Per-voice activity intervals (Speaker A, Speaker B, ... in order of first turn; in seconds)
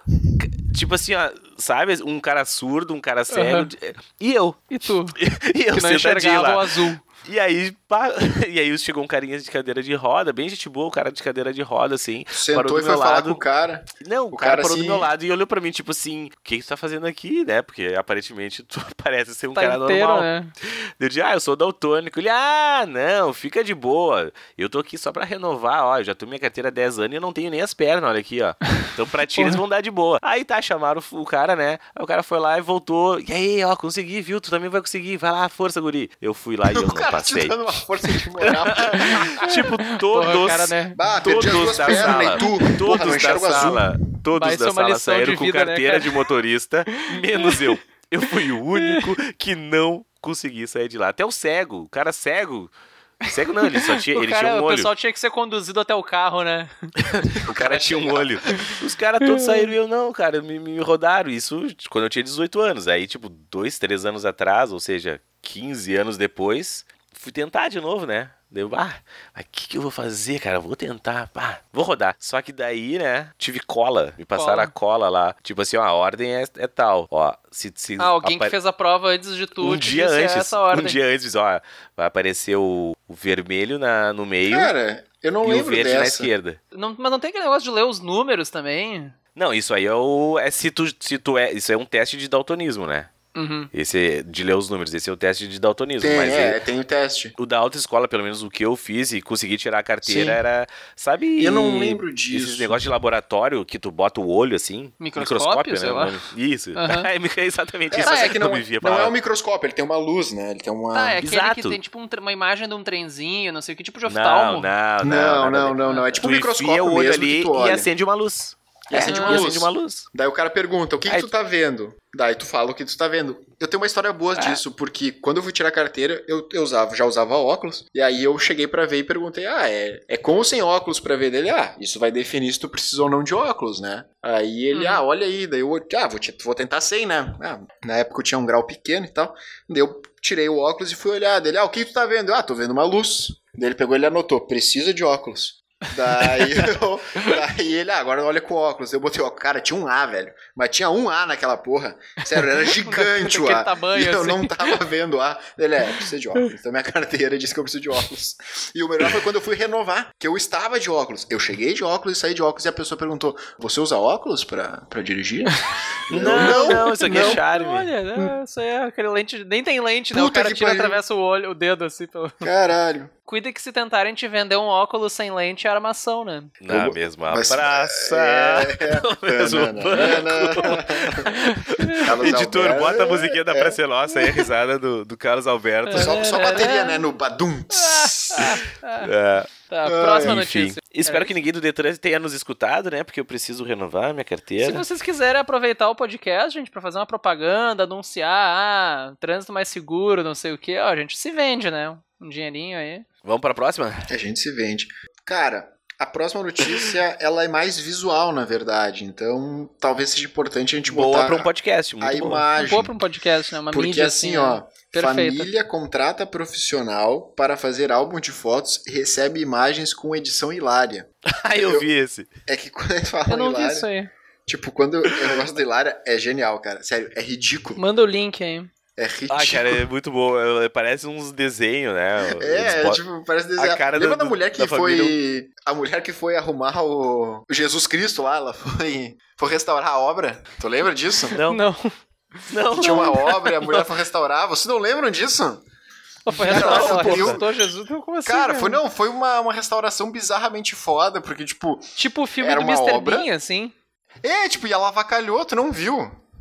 Speaker A: 0.4-13.4, 14.0-37.8, 38.4-54.9, 57.0-78.5, 79.6-84.7, 85.4-86.6, 89.4-93.1, 93.7-96.6, 97.4-109.1, 111.2-111.8, 114.1-120.1, 166.1-167.9, 176.6-186.2, 189.0-189.5, 190.2-194.8, 203.2-204.1, 210.9-212.5, 221.3-222.3, 229.3-233.0, 233.6-235.2, 241.4-241.6, 242.5-243.4, 246.3-247.4
Speaker B: 3.3-3.7, 4.7-5.2, 5.7-7.0, 19.6-20.5, 29.4-29.6, 39.4-41.0, 41.9-42.7, 44.3-46.2, 47.0-47.8, 48.7-49.1, 53.8-56.7, 58.5-59.7, 74.3-74.7, 78.0-81.0, 86.7-89.2, 93.3-93.7, 105.0-106.2, 106.8-107.1, 108.0-108.4, 110.9-114.7, 115.8-116.2, 119.1-119.5, 134.7-135.0, 146.2-147.3, 152.4-154.8, 166.3-172.5, 173.3-176.5, 181.3-182.1, 185.9-187.1, 187.7-189.1, 189.7-191.3, 194.6-203.1, 212.6-215.5, 223.3-224.1, 227.8-228.7, 241.4-243.8, 246.3-248.8, 252.0-253.7
Speaker C: 12.3-15.1, 36.7-39.5, 41.0-43.9, 57.5-58.3, 84.5-86.3, 96.0-97.3, 100.1-100.3, 101.4-102.8, 107.9-111.2, 115.0-117.9, 118.9-167.4, 170.1-171.0, 172.4-173.1, 176.7-181.3, 182.0-184.5, 185.9-188.6, 189.8-190.4, 204.1-212.9, 213.7-221.9, 222.5-223.9, 224.5-227.8, 229.0-229.8, 232.4-241.4, 242.7-245.6, 246.5-247.4, 248.2-253.3, 254.2-256.2